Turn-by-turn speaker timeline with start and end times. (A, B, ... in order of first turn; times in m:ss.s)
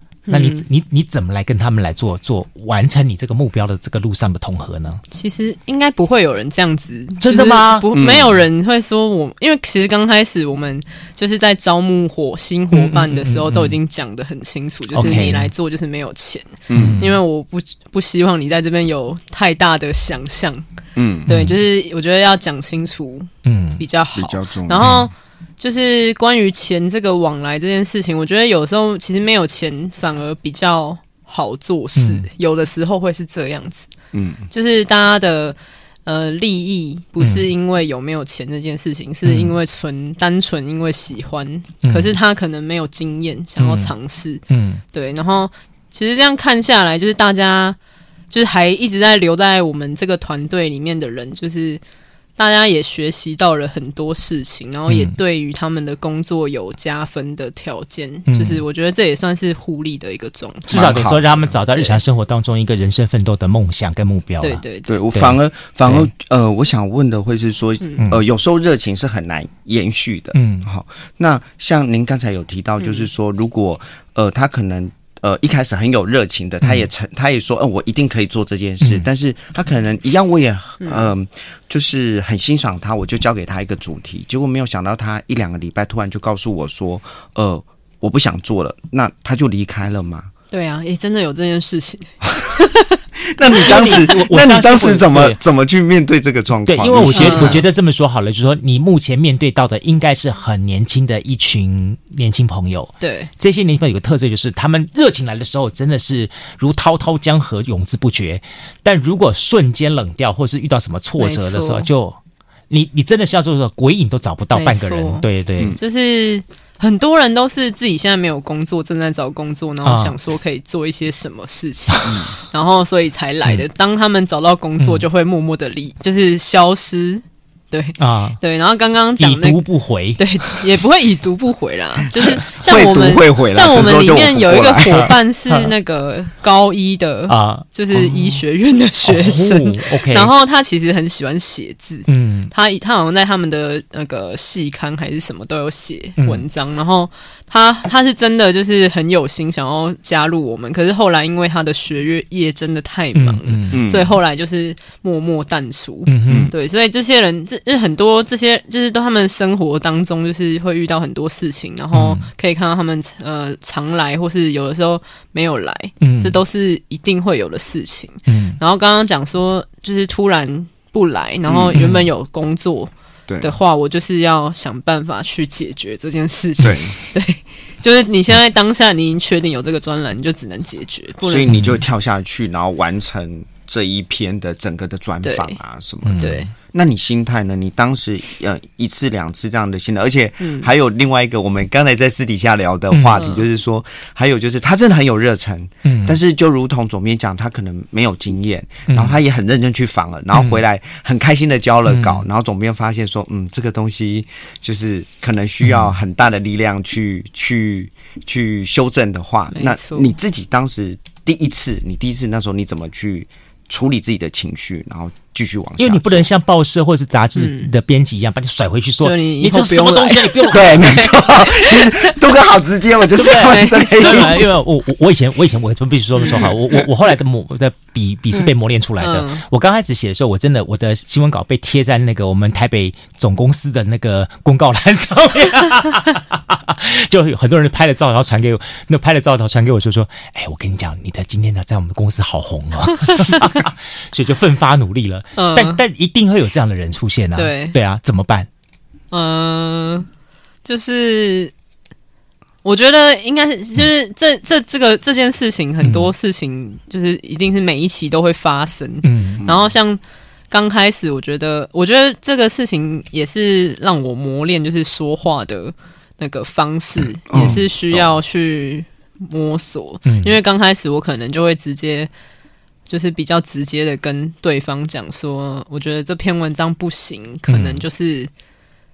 0:00.3-0:00.6 A
0:00.3-0:05.0 B
0:05.1-0:20.6 A
0:07.2-0:07.9 B
0:07.9-0:08.3 C
0:12.7-0:13.8 B
0:14.9-0:15.5 B
0:16.7-0:17.0 C
0:16.7-0:17.2 B
0:21.0-0:21.3 C
0:21.3-0:33.9 A
0:21.3-0:21.6 B
0:23.4-0:23.8 B
0:24.2-0:25.0 C
0:24.8-0:25.1 B
0:32.0-0:32.3 B
0:34.1-0:34.5 C
0:34.5-0:47.8 A
0:39.2-0:39.6 B
0:41.8-0:42.2 B
0:43.6-0:43.9 B
0:44.5-0:44.8 B
0:48.3-0:51.8 A
0:52.4-1:01.0 A
0:54.9-0:55.1 B
0:58.3-0:58.6 B
1:00.7-1:04.6 B
1:00.7-1:01.5 C
1:01.7-1:02.0 A
1:04.4-1:04.9 A
1:04.9-1:30.3 C
1:05.1-1:06.1 B
1:10.3-1:10.7 B
1:12.8-1:13.1 A
1:18.8-1:19.1 B
1:30.5-1:34.2 A
1:33.3-1:37.7 C
1:33.5-1:35.4 B
1:36.7-1:52.2 B
1:37.0-1:37.6 A
1:43.0-1:43.3 A
1:51.2-1:51.9 A
1:52.7-1:55.8 B
1:54.5-1:55.2 A
1:55.8-2:09.6 A
1:59.8-2:00.2 B
2:02.1-2:02.3 C
2:04.8-2:05.0 B
2:08.0-2:08.4 B
2:09.2-2:10.6 B
2:10.2-3:01.6 A
2:12.6-2:15.1 C
2:14.9-2:15.7 B
2:17.3-2:18.4 B
2:19.0-2:20.3 B
2:22.1-2:22.5 B
2:26.2-2:26.4 B
2:33.2-2:33.8 B
2:33.7-2:34.1 C
2:36.1-2:36.5 B
2:36.3-2:36.5 C
2:41.9-2:42.2 B
2:46.0-2:46.4 B
2:48.3-2:48.6 B
2:51.5-2:51.8 C
2:51.8-2:52.1 B
2:53.3-2:53.5 C
2:56.6-2:57.0 C
3:01.2-3:36.3 C
3:01.5-3:01.8 B
3:05.2-3:05.6 A
3:06.0-3:06.4 B
3:06.2-3:06.5 A
3:10.4-3:10.7 A
3:12.9-3:13.2 B
3:13.2-3:13.4 A
3:15.8-3:16.2 B
3:18.9-3:19.2 B
3:21.9-3:22.2 B
3:25.6-3:26.0 B
3:29.5-3:30.1 A
3:35.8-3:41.3 B
3:37.4-3:37.7 A
3:39.0-3:42.2 A
3:40.5-3:44.5 C
3:43.2-4:08.5 B
3:43.2-3:44.4 A
3:46.2-3:46.8 C
3:49.0-3:49.4 A
4:03.1-4:03.4 A
4:05.4-4:05.8 A
4:07.4-4:07.8 A
4:09.1-4:10.1 A
4:10.6-4:11.5 A
4:12.6-4:20.0 A
4:15.8-4:16.1 B
4:19.0-4:19.4 B
4:20.5-4:32.1 A
4:27.3-4:28.0 C
4:27.3-4:27.6 B
4:30.1-4:30.4 B
4:32.9-4:38.3 A
4:37.5-4:37.8 B